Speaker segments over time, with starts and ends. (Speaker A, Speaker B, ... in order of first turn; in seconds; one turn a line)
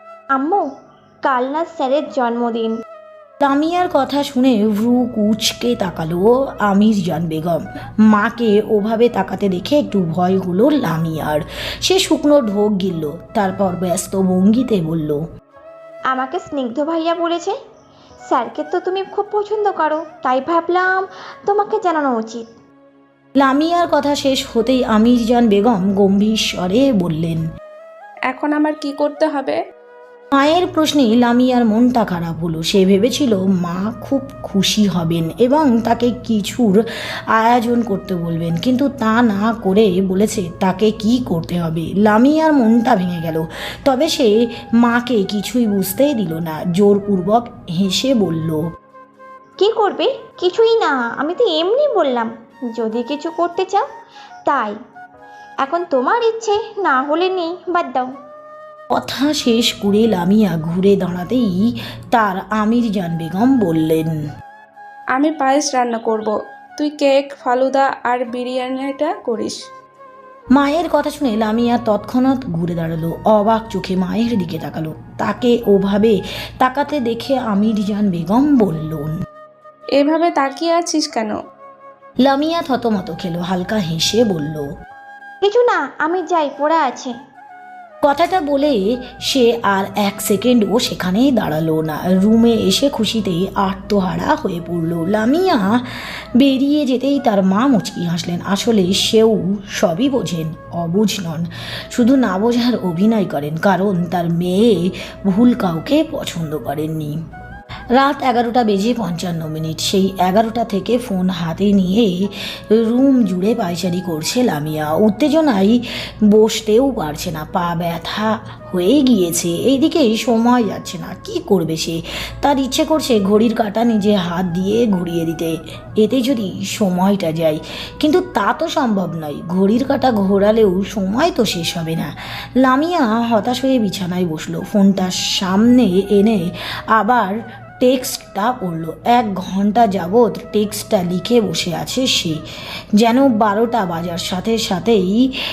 Speaker A: 0.3-0.7
Speaker A: 1.2-2.8
Speaker B: 3.4-15.2
Speaker A: 16.1-17.5
Speaker A: 18.3-22.5
Speaker B: 23.4-27.4
Speaker C: 28.3-29.6
Speaker B: 30.3-48.6
Speaker A: 49.6-53.9
Speaker A: 54.5-54.8
Speaker A: 55.6-58.1
Speaker B: 58.9-64.2
Speaker C: 65.1-69.6
Speaker B: 70.5-79.1
Speaker C: 80.0-81.4
Speaker B: 82.2-84.7
Speaker A: 85.4-87.1
Speaker B: 88.0-88.8
Speaker B: 89.3-95.9
Speaker B: 96.4-107.2
Speaker B: 108.0-142.4
Speaker B: 143.0-145.3